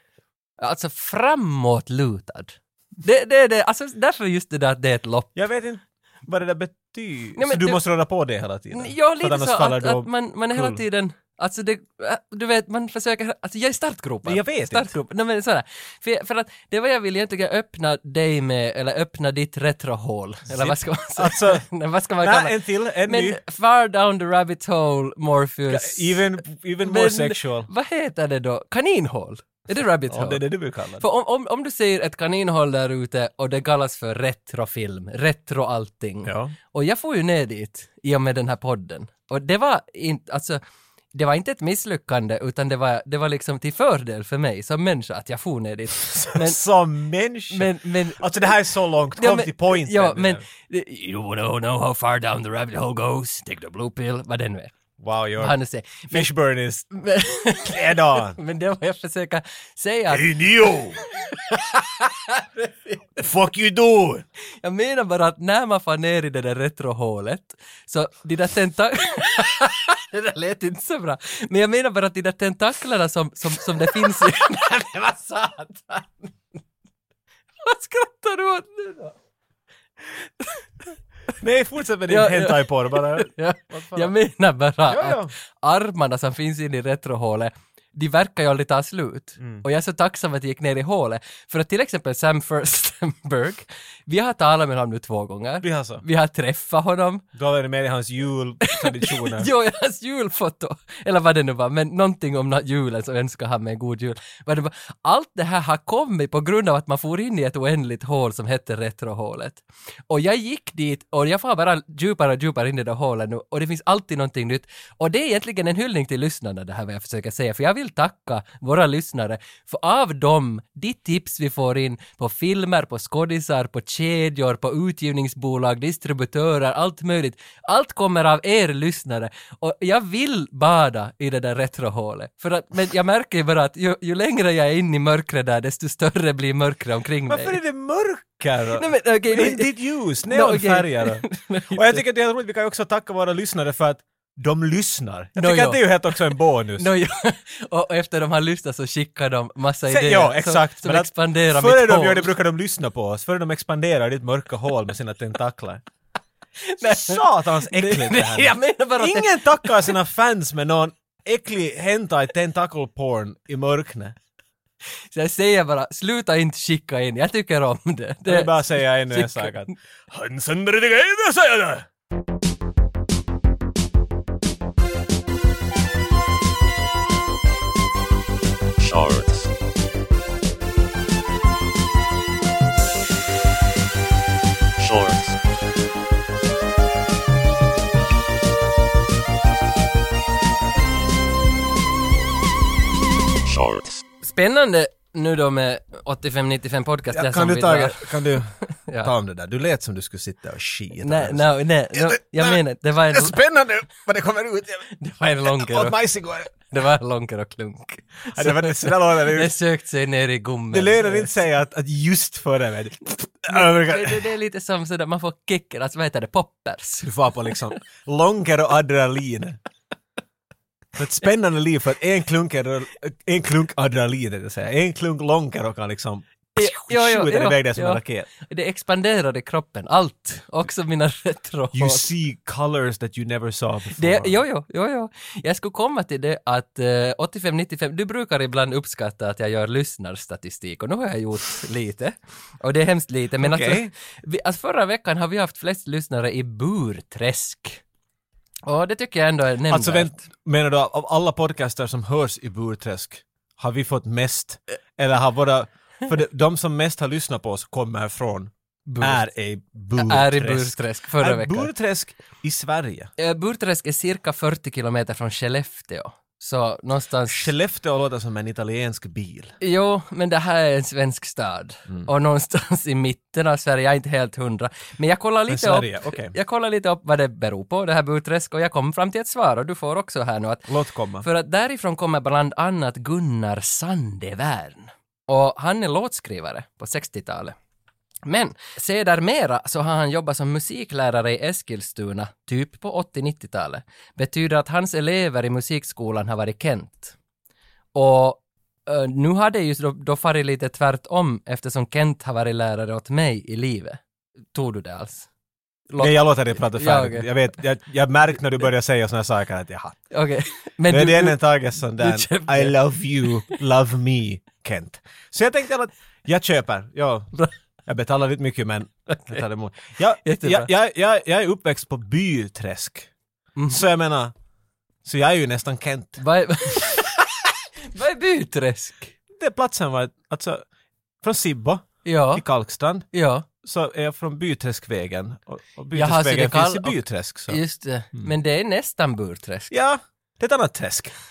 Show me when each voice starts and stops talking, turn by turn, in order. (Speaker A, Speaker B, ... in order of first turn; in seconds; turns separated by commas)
Speaker A: 0.6-5.3, Speaker B: 5.3-10.8, Speaker A: 7.3-7.8, Speaker A: 8.7-26.3, Speaker B: 14.2-14.9, Speaker B: 20.5-21.6, Speaker B: 22.2-23.4, Speaker B: 25.7-27.7, Speaker A: 26.8-30.4, Speaker B: 30.1-31.0, Speaker A: 31.0-40.6, Speaker B: 36.2-36.5, Speaker A: 41.1-46.6, Speaker B: 46.0-50.4, Speaker A: 47.5-48.5, Speaker A: 49.2-54.7, Speaker B: 55.0-55.5, Speaker A: 55.4-56.3, Speaker B: 56.1-56.9, Speaker A: 56.9-63.0, Speaker B: 57.6-58.4, Speaker B: 60.1-61.0, Speaker B: 63.2-64.2, Speaker A: 64.6-76.3, Speaker A: 77.6-79.1, Speaker B: 81.4-84.1, Speaker A: 82.1-97.2, Speaker B: 84.9-85.3, Speaker B: 95.6-96.0, Speaker B: 97.3-99.5, Speaker A: 98.7-137.6, Speaker B: 137.3-146.9, Speaker A: 138.8-142.0, Speaker A: 145.4-152.3, Speaker B: 149.9-155.8, Speaker A: 156.6-159.8, Speaker B: 156.8-164.2, Speaker A: 165.1-169.7, Speaker B: 168.2-171.9, Speaker C: 178.8-179.5, Speaker C: 184.8-185.3, Speaker C: 193.4-194.0, Speaker A: 194.2-199.1, Speaker B: 197.1-204.9, Speaker A: 201.0-203.4, Speaker A: 204.9-206.0, Speaker B: 205.4-206.5, Speaker A: 206.5-211.3, Speaker B: 208.3-209.5, Speaker B: 210.7-214.2, Speaker A: 213.5-217.7, Speaker B: 217.0-219.6, Speaker B: 220.9-228.3, Speaker A: 226.6-232.1, Speaker B: 231.7-234.3, Speaker A: 233.9-247.8, Speaker B: 243.4-243.9, Speaker A: 248.7-250.2, Speaker B: 249.7-263.1, Speaker A: 258.9-259.2, Speaker A: 259.9-261.7, Speaker A: 263.2-267.5, Speaker B: 267.2-269.5, Speaker A: 269.6-287.6, Speaker B: 275.5-276.3, Speaker B: 280.7-281.3, Speaker A: 288.2-297.1, Speaker A: 297.9-304.0, Speaker A: 304.5-305.3, Speaker A: 305.9-307.3, Speaker B: 306.0-310.0, Speaker A: 310.1-313.6, Speaker B: 310.9-317.3, Speaker B: 317.9-323.1, Speaker A: 319.1-319.4, Speaker A: 320.2-320.7, Speaker A: 323.6-323.8, Speaker B: 323.7-324.3, Speaker B: 325.0-326.2, Speaker A: 326.2-329.1, Speaker B: 329.4-330.6, Speaker B: 331.2-333.1, Speaker A: 332.0-332.4, Speaker A: 333.1-333.4, Speaker B: 333.6-337.6, Speaker A: 335.9-339.7, Speaker B: 339.7-341.1